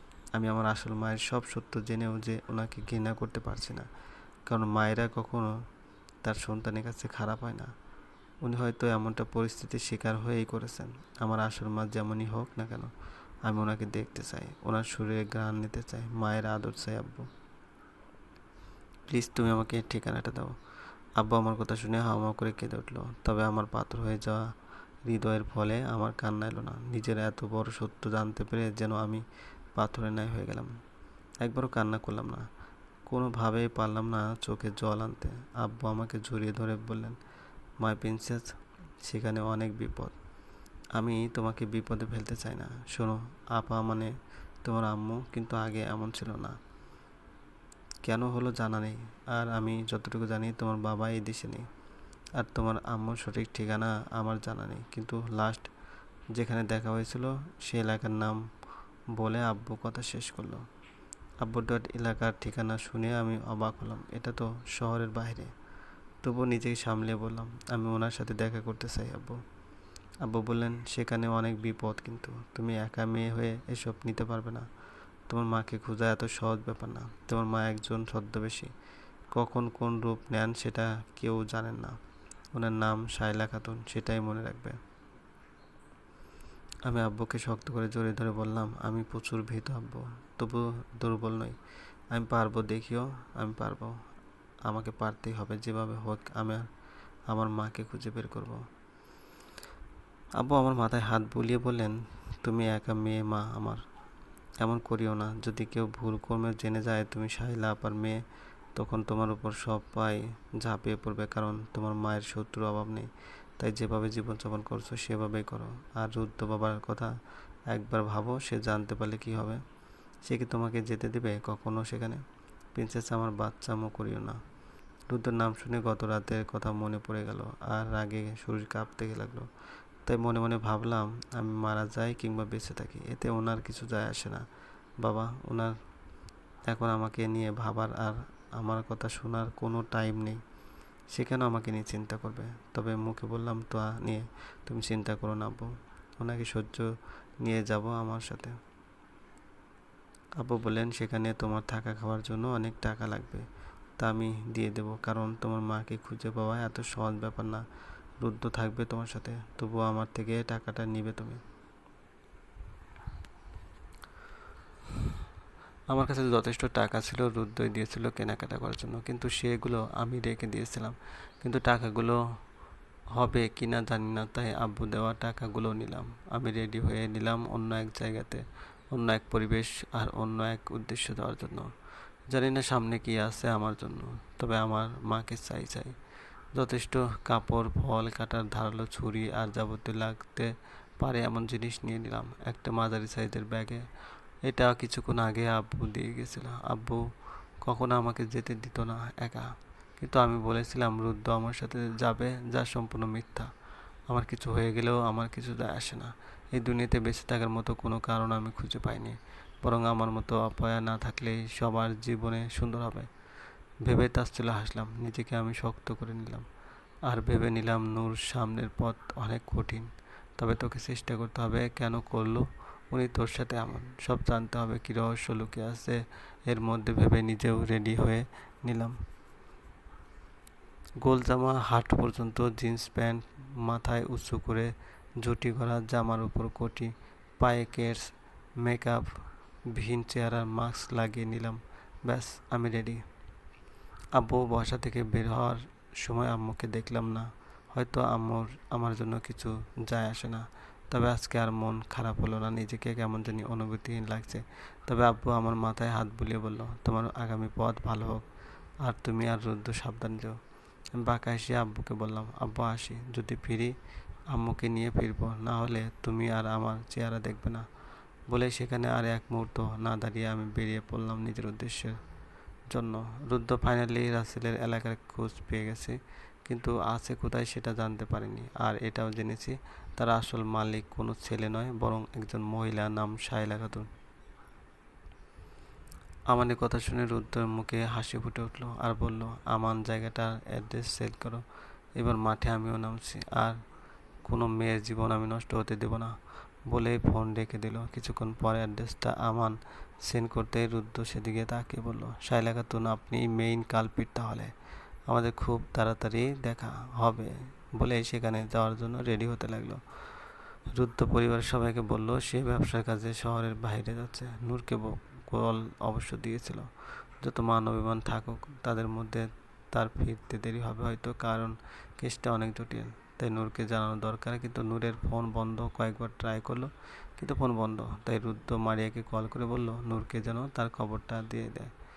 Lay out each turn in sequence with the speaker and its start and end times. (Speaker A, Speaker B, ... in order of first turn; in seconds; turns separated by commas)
Speaker A: 0.3-3.9, Speaker A: 4.5-5.6, Speaker A: 6.2-7.7, Speaker A: 8.4-12.9, Speaker A: 13.4-17.3, Speaker A: 19.1-20.6, Speaker A: 21.2-24.4, Speaker A: 25.1-29.2, Speaker A: 29.8-30.8, Speaker A: 31.4-32.5, Speaker A: 33.1-37.2, Speaker A: 37.8-40.1, Speaker A: 41.0-44.1, Speaker A: 44.6-46.6, Speaker A: 48.0-51.7, Speaker A: 52.4-55.7, Speaker A: 56.3-58.4, Speaker A: 59.2-60.7, Speaker A: 61.4-65.5, Speaker A: 66.2-69.4, Speaker A: 70.2-74.7, Speaker A: 75.3-78.7, Speaker A: 79.3-82.0, Speaker A: 82.5-84.8, Speaker A: 86.8-91.6, Speaker A: 92.1-94.0, Speaker A: 94.7-96.7, Speaker A: 97.3-98.7, Speaker A: 100.4-103.8, Speaker A: 104.6-108.2, Speaker A: 108.8-117.1, Speaker A: 117.7-119.6, Speaker A: 120.2-122.2, Speaker A: 122.7-124.4, Speaker A: 125.1-129.5, Speaker A: 130.1-134.4, Speaker A: 135.0-135.7, Speaker A: 136.7-140.4, Speaker A: 141.1-146.9, Speaker A: 147.4-148.6, Speaker A: 150.4-153.5, Speaker A: 154.0-157.6, Speaker A: 158.2-161.4, Speaker A: 165.9-172.2, Speaker A: 173.1-181.7, Speaker A: 182.3-185.9, Speaker A: 186.6-193.8, Speaker A: 194.4-197.1, Speaker A: 197.6-203.5, Speaker A: 204.1-213.1, Speaker A: 213.8-216.5, Speaker A: 217.1-229.0, Speaker A: 231.0-243.0, Speaker A: 244.1-258.3, Speaker A: 258.8-260.4, Speaker A: 260.9-263.8, Speaker A: 264.3-267.6, Speaker A: 268.3-272.0, Speaker A: 272.7-283.9, Speaker A: 286.3-291.4, Speaker A: 292.0-293.6, Speaker A: 294.2-296.2, Speaker A: 296.7-304.5, Speaker A: 305.1-310.0, Speaker A: 310.7-331.7